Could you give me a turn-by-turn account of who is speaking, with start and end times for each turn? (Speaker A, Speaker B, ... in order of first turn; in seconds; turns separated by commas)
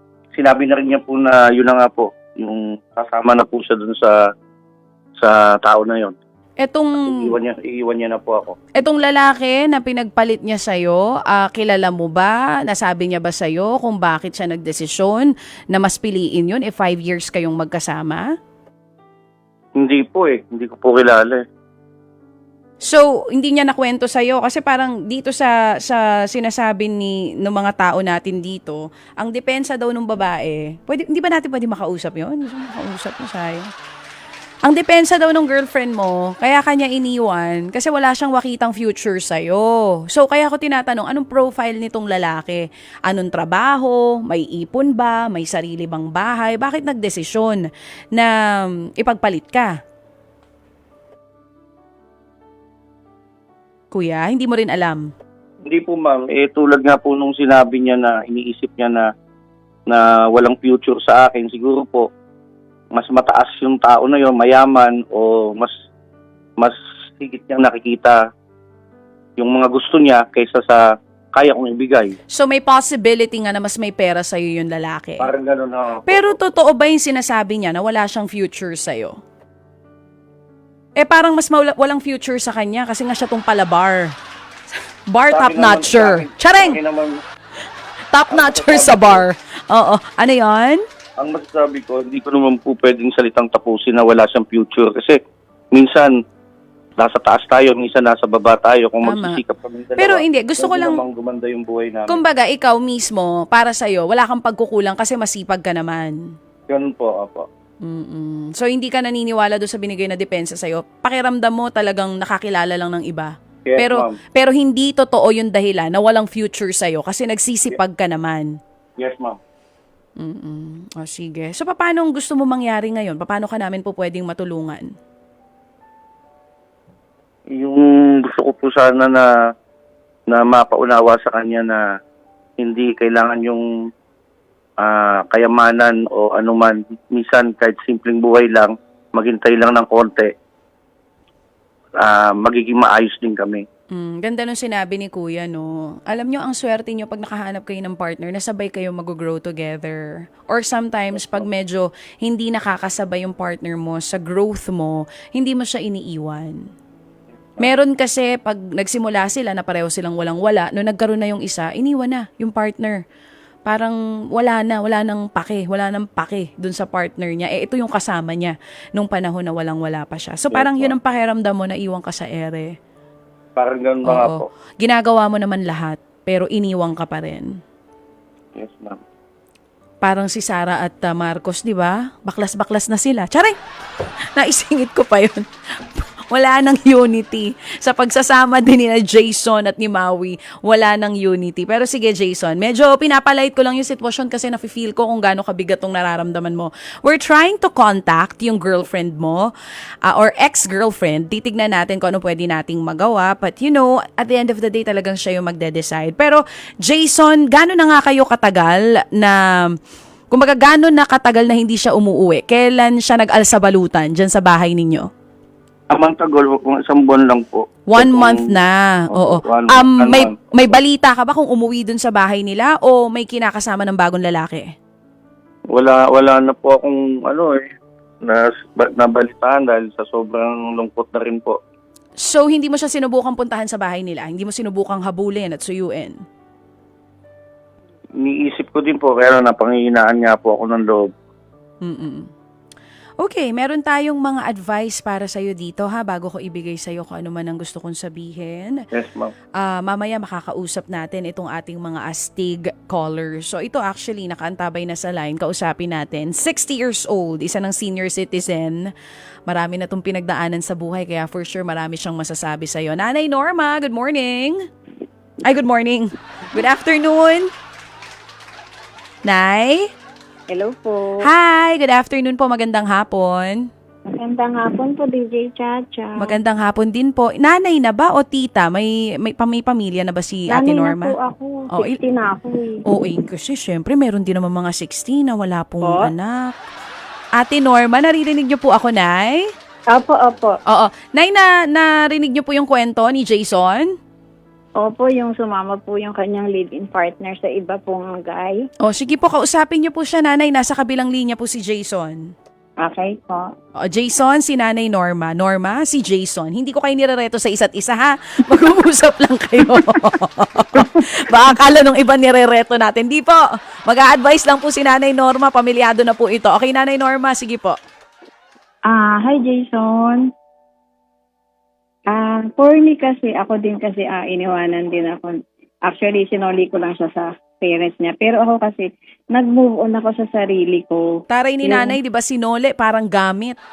Speaker A: 0.3-4.3, Speaker A: 5.2-6.2, Speaker B: 6.6-7.3, Speaker A: 7.0-8.6, Speaker B: 8.8-18.3, Speaker A: 19.8-21.4, Speaker B: 22.8-33.7, Speaker B: 34.7-49.8, Speaker B: 53.9-55.1, Speaker A: 55.7-59.1, Speaker A: 59.9-62.1, Speaker A: 62.9-65.7, Speaker A: 66.6-68.2, Speaker A: 69.4-70.8, Speaker A: 71.3-72.2, Speaker B: 72.3-75.3, Speaker A: 75.2-76.4, Speaker B: 76.1-79.2, Speaker B: 81.0-84.1, Speaker B: 85.1-86.8, Speaker A: 85.3-87.2, Speaker B: 88.1-90.8, Speaker A: 88.3-89.2, Speaker A: 91.2-95.2, Speaker A: 95.7-96.2, Speaker A: 97.0-102.2, Speaker B: 99.0-99.4, Speaker B: 100.0-101.0, Speaker B: 102.1-106.2, Speaker A: 106.7-107.5, Speaker B: 107.8-118.5, Speaker A: 113.7-114.2, Speaker A: 119.0-119.4, Speaker B: 120.2-124.9, Speaker A: 127.5-129.3, Speaker A: 130.3-131.8, Speaker A: 132.6-133.7, Speaker A: 134.8-140.3, Speaker A: 142.0-143.7, Speaker B: 143.9-156.7, Speaker A: 151.2-151.4, Speaker B: 157.6-163.0, Speaker B: 163.7-172.8, Speaker A: 170.5-170.9, Speaker A: 173.6-174.5, Speaker B: 174.1-177.5, Speaker A: 178.6-179.0, Speaker B: 180.0-183.6, Speaker B: 184.3-199.5, Speaker B: 200.1-209.8, Speaker B: 210.3-215.1, Speaker A: 215.9-218.5, Speaker B: 217.9-224.7, Speaker A: 219.1-220.8, Speaker A: 225.7-231.6, Speaker B: 232.2-236.2, Speaker A: 238.2-241.1, Speaker B: 241.8-242.3, Speaker B: 243.2-248.8, Speaker A: 248.9-249.3, Speaker B: 249.6-258.8, Speaker B: 259.5-264.7, Speaker B: 265.4-267.5, Speaker B: 269.3-269.9, Speaker C: 270.5-271.2, Speaker B: 271.2-273.7, Speaker C: 274.1-276.4, Speaker B: 276.2-281.1, Speaker C: 280.5-282.8, Speaker B: 281.7-282.0, Speaker B: 282.9-286.6, Speaker C: 285.8-286.1, Speaker B: 287.4-289.5, Speaker C: 289.9-290.6, Speaker B: 290.7-294.0, Speaker C: 294.8-298.7, Speaker B: 298.8-302.3, Speaker C: 302.8-303.5, Speaker B: 303.8-317.8, Speaker C: 309.7-310.1, Speaker C: 310.8-311.0, Speaker C: 318.9-320.3, Speaker C: 322.1-332.0, Speaker B: 331.3-333.6